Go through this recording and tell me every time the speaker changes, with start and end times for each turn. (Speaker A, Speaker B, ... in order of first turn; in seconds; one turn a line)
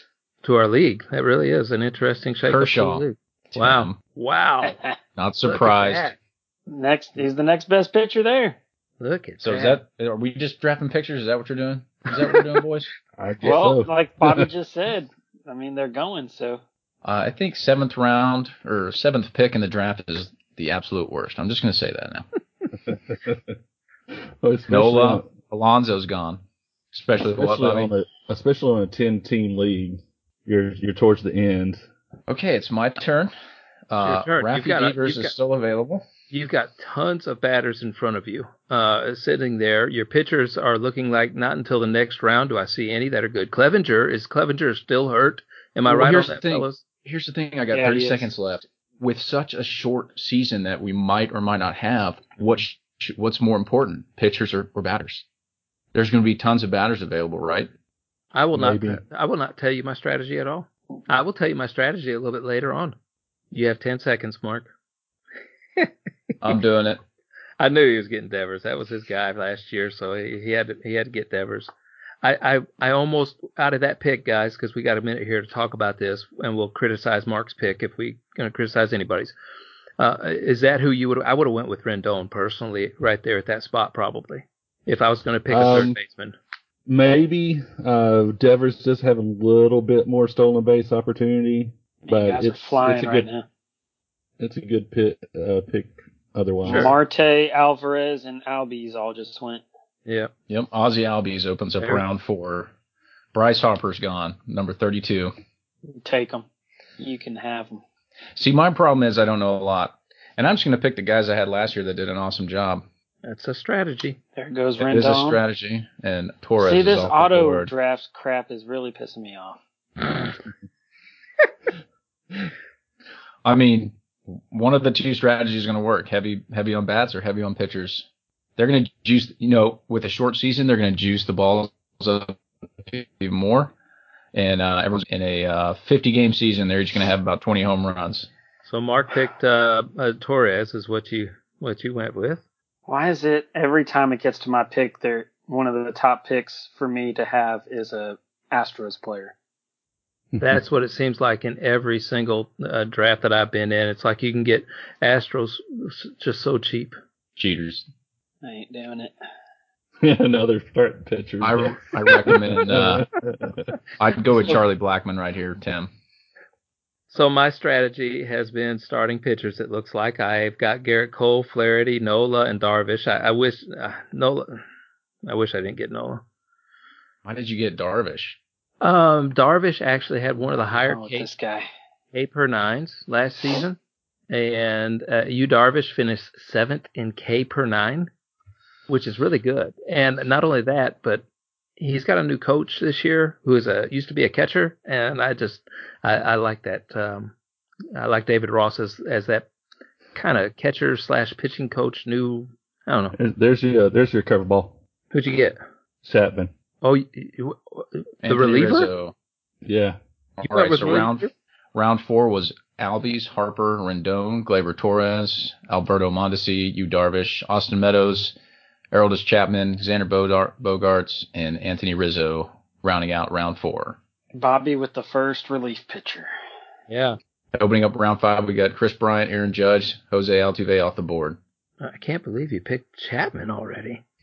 Speaker A: 0.4-4.8
Speaker B: 2.5-3.9
Speaker C: 4.6-4.9
Speaker B: 5.2-6.1
Speaker A: 5.4-6.2
Speaker C: 6.7-8.6
Speaker A: 9.0-9.8
Speaker B: 9.4-12.9
Speaker D: 13.2-14.5
Speaker C: 13.4-16.6
Speaker B: 17.0-22.3
Speaker D: 22.8-23.6
Speaker D: 24.1-25.3
Speaker B: 24.7-26.4
Speaker B: 26.9-27.9
Speaker D: 27.3-31.8
Speaker B: 32.3-33.3
Speaker B: 33.9-36.0
Speaker A: 34.0-35.3
Speaker A: 36.3-46.8
Speaker B: 45.9-55.2
Speaker C: 47.7-48.3
Speaker B: 55.9-57.7
Speaker A: 58.3-63.0
Speaker D: 58.5-59.0
Speaker A: 63.5-64.7
Speaker B: 66.4-67.0
Speaker A: 67.6-71.7
Speaker A: 72.2-79.3
Speaker A: 80.0-86.3
Speaker D: 85.5-86.0
Speaker D: 86.8-93.3
Speaker C: 92.0-93.5
Speaker D: 94.4-97.0
Speaker A: 96.6-96.9
Speaker C: 96.7-99.6
Speaker A: 100.0-100.3
Speaker B: 100.5-102.7
Speaker B: 103.3-105.3
Speaker C: 106.0-106.5
Speaker C: 107.0-107.8
Speaker B: 108.3-112.8
Speaker A: 113.2-114.2
Speaker C: 114.3-115.4
Speaker B: 114.8-117.7
Speaker C: 116.6-119.6
Speaker B: 123.4-128.1
Speaker B: 128.6-133.7
Speaker B: 134.3-138.3
Speaker A: 138.6-142.4
Speaker C: 142.9-149.3
Speaker D: 150.3-150.6
Speaker A: 150.4-157.0
Speaker B: 157.4-157.9
Speaker C: 158.4-159.1
Speaker D: 160.0-163.7
Speaker B: 161.4-163.1
Speaker B: 164.0-165.9
Speaker A: 167.1-174.6
Speaker A: 175.2-176.2
Speaker B: 177.2-178.4
Speaker A: 178.8-181.3
Speaker C: 180.8-181.7
Speaker A: 182.1-183.8
Speaker A: 184.3-188.1
Speaker A: 188.9-191.2
Speaker A: 191.8-197.3
Speaker A: 197.9-199.5
Speaker A: 200.1-203.2
Speaker D: 203.1-204.8
Speaker A: 205.1-205.6
Speaker D: 206.0-206.5
Speaker A: 206.8-208.9
Speaker B: 208.2-209.1
Speaker D: 209.6-210.0
Speaker B: 210.4-218.3
Speaker A: 210.4-211.3
Speaker B: 218.9-224.0
Speaker C: 224.3-226.3
Speaker A: 226.9-227.2
Speaker B: 227.5-231.4
Speaker A: 231.8-234.0